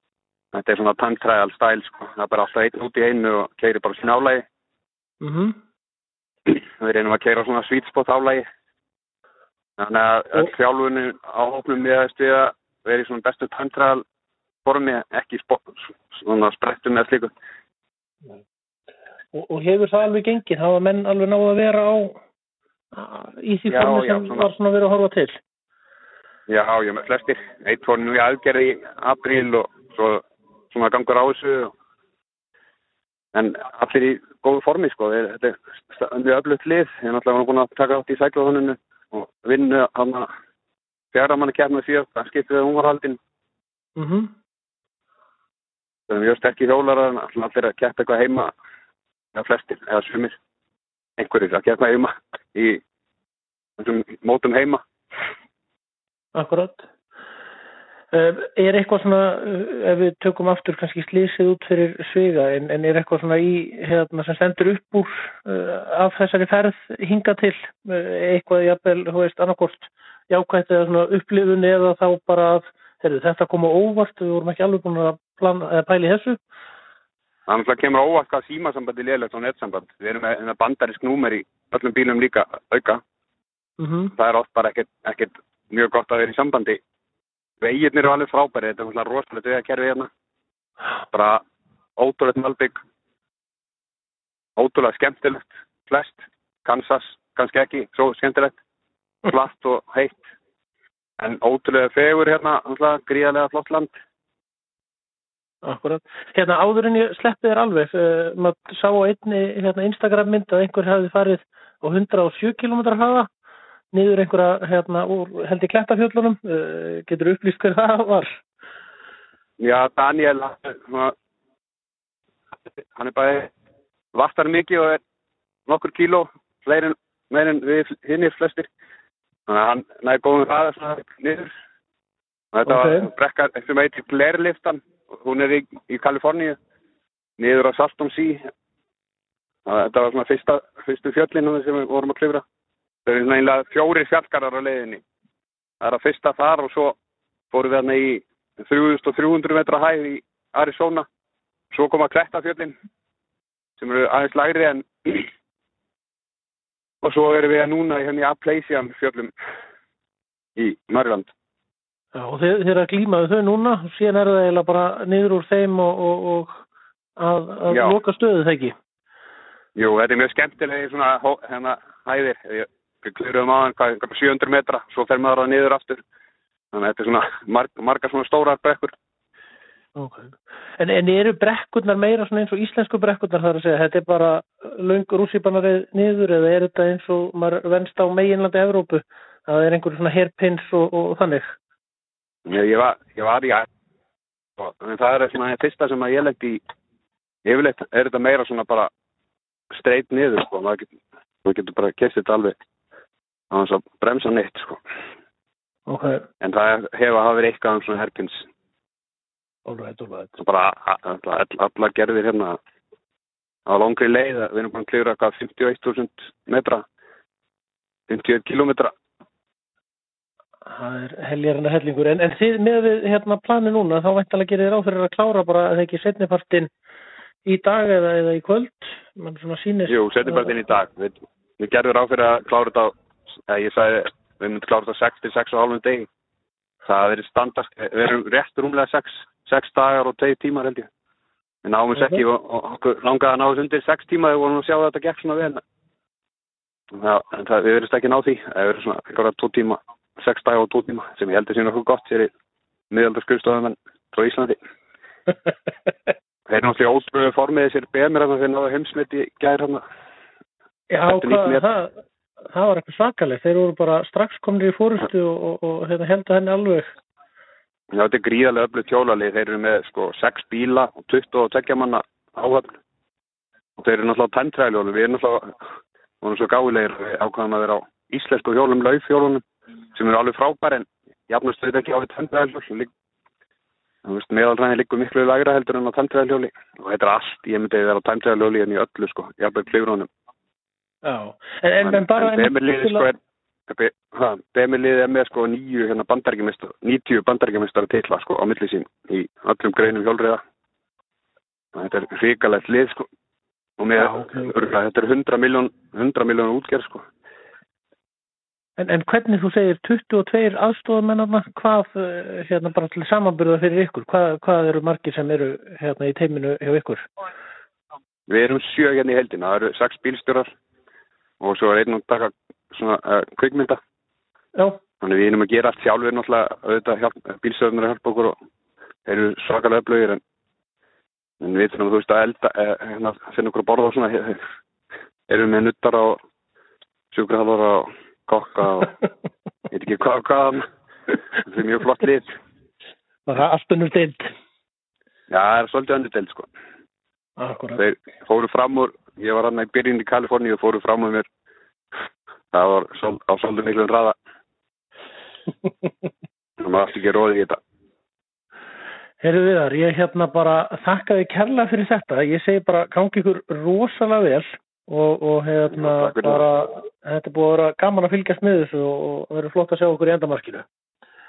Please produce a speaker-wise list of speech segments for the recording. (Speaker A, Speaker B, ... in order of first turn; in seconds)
Speaker A: 0.5-4.4, 6.5-8.4, 9.8-14.0, 14.7-17.3, 23.7-24.5, 26.5-31.7, 33.3-40.3, 41.1-43.2, 46.1-48.5, 49.3-50.4, 51.2-52.8, 53.8-54.8, 77.5-83.0, 84.2-86.8, 87.6-90.1, 91.1-91.4, 92.0-92.8, 94.6-98.6, 99.3-100.3, 101.2-103.9, 119.6-121.1, 122.9-123.5, 124.1-125.0, 125.7-128.7, 129.5-131.5, 132.5-136.6, 137.4-138.4, 139.7-142.4, 143.1-145.0, 145.8-146.9, 147.5-151.1, 151.7-152.8, 153.8-155.3, 157.0-159.3, 160.6-161.3, 167.7-167.9, 169.8-176.0, 176.7-178.9, 192.5-193.7, 194.6-196.6, 197.4-198.9, 199.7-200.9, 201.4-202.6, 203.5-204.8, 206.4-208.4, 210.4-212.6, 213.7-216.8, 218.1-218.9, 229.9-232.9, 233.5-236.1, 236.8-240.9, 241.6-245.6, 247.0-252.3, 252.9-254.6, 256.5-259.8, 261.1-261.6, 267.9-272.7, 273.8-275.6, 276.2-279.4, 279.9-282.9, 284.1-290.1, 291.8-293.2, 293.7-300.4, 301.8-303.1, 303.8-307.0, 318.3-320.5, 321.4-323.8, 325.0-328.4, 329.1-330.2, 331.4-334.4, 335.3-336.2, 337.1-338.9, 339.7-340.6, 341.4-342.3, 345.3-346.5, 347.8-351.3, 352.5-354.1, 356.6-357.6, 365.7-366.5
Speaker B: 5.2-5.6, 19.3-22.2, 22.9-25.4, 44.0-44.3, 56.4-56.8, 58.1-76.4, 83.8-84.1, 105.7-113.3, 113.9-118.4, 132.7-133.1, 162.2-166.7, 167.2-168.7, 180.0-191.6, 205.9-206.2, 209.7-210.3, 220.7-226.7, 227.5-230.6, 260.9-261.9, 262.5-266.9, 291.0-293.1, 304.0-304.5, 308.8-317.1, 324.6-324.8, 343.3-344.3, 347.4-347.8, 359.2-370.7